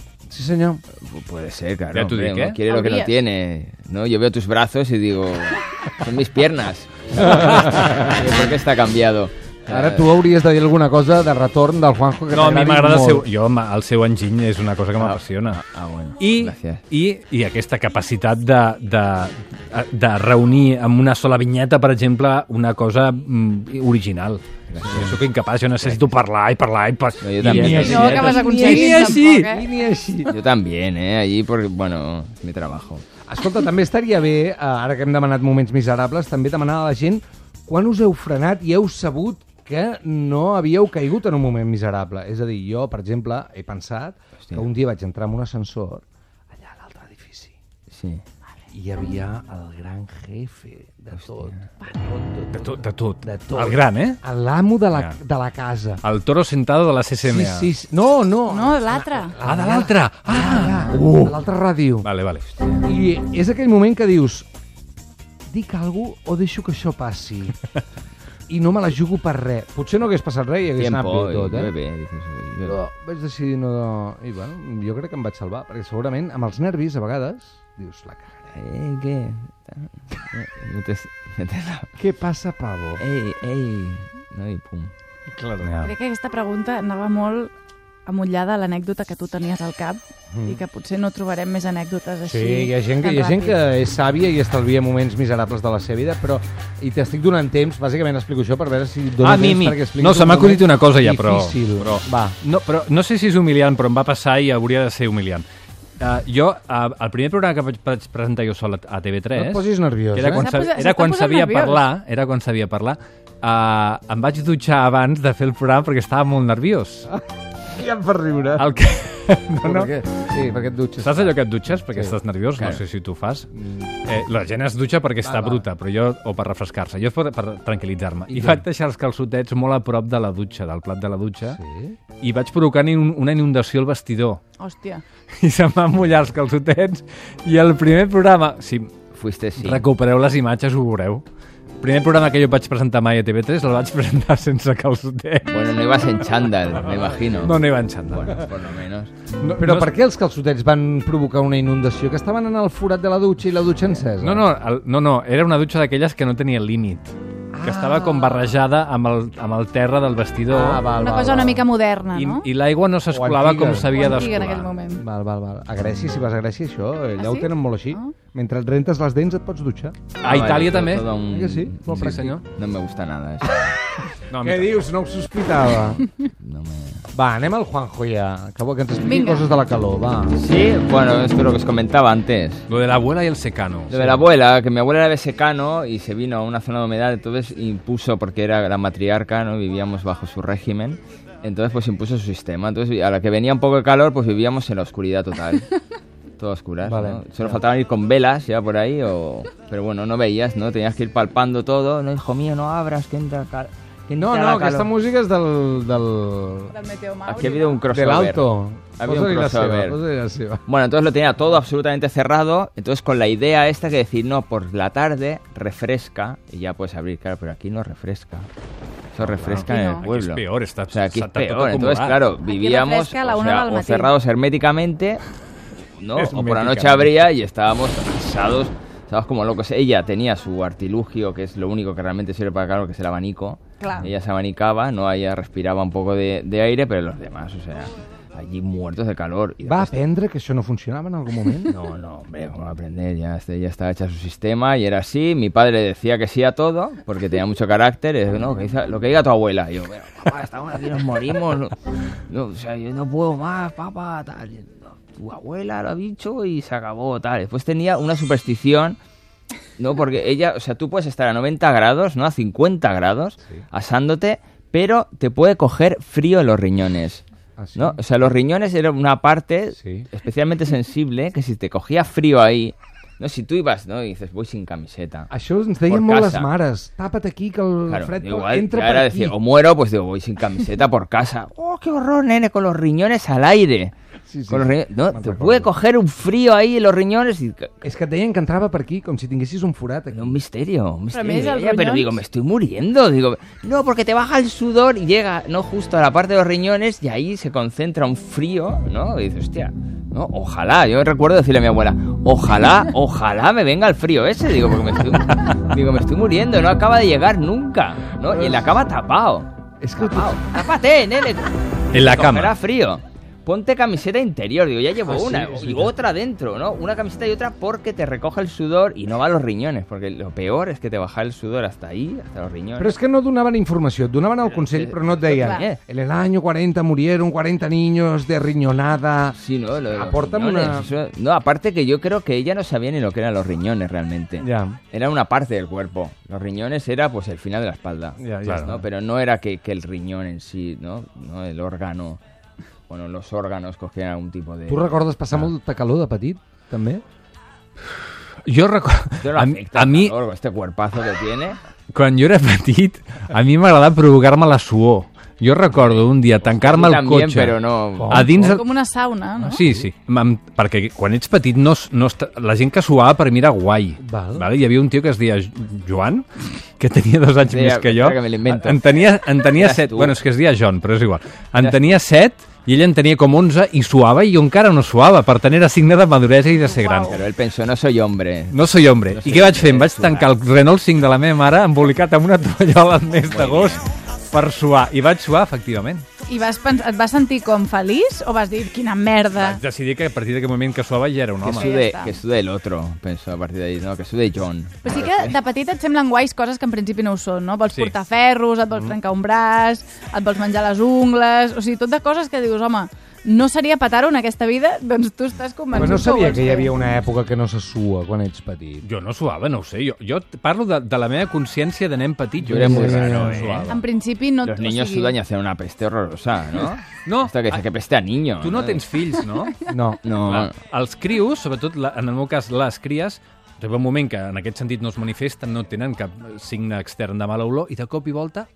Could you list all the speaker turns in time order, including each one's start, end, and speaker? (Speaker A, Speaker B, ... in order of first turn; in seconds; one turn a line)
Speaker A: 0.3-0.8
Speaker B: 1.0-10.1
Speaker C: 1.9-2.6
Speaker D: 2.7-3.1
Speaker A: 7.2-8.3
Speaker C: 7.4-7.8
Speaker A: 9.7-13.2
Speaker C: 12.3-15.6
Speaker B: 15.0-16.8
Speaker C: 16.2-29.5
Speaker B: 24.7-25.1
Speaker B: 27.2-28.2
Speaker A: 27.4-30.4
Speaker D: 27.7-29.6
Speaker B: 30.2-33.0
Speaker A: 33.3-47.5
Speaker B: 44.4-44.7
Speaker B: 47.9-48.2
Speaker A: 48.7-52.7
Speaker B: 51.1-51.6
Speaker C: 52.5-54.2
Speaker A: 53.2-56.0
Speaker C: 56.0-57.7
Speaker A: 57.2-62.1
Speaker D: 58.5-59.4
Speaker C: 59.4-61.3
Speaker C: 62.0-62.5
Speaker A: 62.8-64.5
Speaker A: 65.5-67.6
Speaker A: 68.5-71.7
Speaker B: 70.8-72.8
Speaker A: 72.7-78.5
Speaker B: 78.5-81.9
Speaker A: 82.0-83.0
Speaker B: 83.0-84.9
Speaker C: 85.3-85.9
Speaker D: 85.8-87.5
Speaker D: 88.0-93.6
Speaker A: 90.3-90.6
Speaker A: 92.2-102.3
Speaker C: 99.2-105.4
Speaker C: 106.0-109.6
Speaker A: 109.3-110.5
Speaker C: 110.1-117.1
Speaker D: 110.3-111.8
Speaker A: 117.1-118.6
Speaker C: 118.5-119.9
Speaker A: 119.6-122.2
Speaker C: 121.0-123.5
Speaker A: 123.6-123.9
Speaker C: 124.0-131.6
Speaker A: 125.2-125.6
Speaker A: 128.3-128.6
Speaker A: 131.5-132.0
Speaker C: 132.2-134.4
Speaker D: 134.6-135.0
Speaker C: 135.4-138.9
Speaker B: 139.1-139.8
Speaker C: 139.6-141.2
Speaker C: 141.8-146.1
Speaker B: 145.5-147.6
Speaker C: 146.9-148.5
Speaker B: 148.1-149.1
Speaker C: 149.4-149.9
Speaker A: 149.6-154.4
Speaker C: 154.2-157.1
Speaker A: 157.5-158.5
Speaker C: 157.6-160.8
Speaker A: 160.5-161.6
Speaker D: 160.9-162.5
Speaker C: 162.1-164.7
Speaker A: 163.1-163.9
Speaker D: 163.9-165.0
Speaker A: 165.0-170.1
Speaker D: 167.2-168.1
Speaker C: 170.2-171.1
Speaker B: 170.2-173.8
Speaker A: 171.3-172.4
Speaker C: 171.9-172.4
Speaker C: 174.3-174.7
Speaker A: 174.4-176.1
Speaker B: 176.4-177.0
Speaker A: 177.1-180.4
Speaker D: 179.0-179.4
Speaker B: 180.3-182.6
Speaker C: 182.7-184.2
Speaker B: 183.9-195.7
Speaker B: 196.4-204.9
Speaker A: 196.8-197.4
Speaker A: 204.1-206.7
Speaker D: 206.7-207.8
Speaker B: 207.3-208.5
Speaker A: 207.9-210.6
Speaker B: 209.0-210.0
Speaker B: 210.7-218.5
Speaker B: 219.1-225.2
Speaker C: 219.2-222.2
Speaker D: 219.7-220.1
Speaker D: 222.4-224.1
Speaker B: 226.0-239.9
Speaker C: 226.1-227.1
Speaker D: 233.8-234.1
Speaker A: 239.6-241.7
Speaker B: 241.7-251.7
Speaker B: 252.3-259.0
Speaker B: 259.8-267.2
Speaker A: 267.6-268.0
Speaker B: 267.8-275.3
Speaker A: 269.8-270.1
Speaker A: 275.3-279.3
Speaker B: 275.9-276.5
Speaker B: 277.9-283.9
Speaker A: 284.3-285.7
Speaker B: 284.5-287.7
Speaker A: 287.8-290.4
Speaker B: 290.1-322.9
Speaker D: 291.1-292.2
Speaker A: 308.3-308.7
Speaker A: 309.8-310.4
Speaker C: 311.9-312.6
Speaker A: 315.1-315.9
Speaker A: 322.8-329.4
Speaker B: 324.4-325.8
Speaker D: 325.4-325.6
Speaker B: 329.4-342.2
Speaker A: 329.9-330.9
Speaker A: 334.4-334.8
Speaker A: 338.2-338.7
Speaker C: 338.4-338.8
Speaker B: 342.9-345.0
Speaker A: 344.7-347.0
Speaker C: 348.4-350.1
Speaker B: 349.2-351.6
Speaker C: 351.9-358.6
Speaker B: 355.7-358.2
Speaker A: 358.0-358.6
Speaker D: 358.4-359.6
Speaker C: 359.4-377.1
Speaker A: 364.0-364.5
Speaker B: 367.4-368.9
Speaker B: 369.4-370.2
Speaker B: 371.6-372.0
Speaker D: 376.6-377.2
Speaker B: 377.1-380.3
Speaker C: 378.5-386.0
Speaker B: 383.2-383.9
Speaker D: 386.3-389.6
Speaker C: 389.4-391.7
Speaker B: 391.4-395.4
Speaker D: 391.5-392.2
Speaker D: 394.8-406.8
Speaker A: 405.7-408.8
Speaker C: 408.8-413.8
Speaker A: 412.4-413.6
Speaker B: 412.4-413.7
Speaker D: 413.7-415.1
Speaker B: 414.4-418.8
Speaker C: 417.0-417.6
Speaker C: 418.4-428.5
Speaker A: 419.6-420.0
Speaker B: 420.0-420.5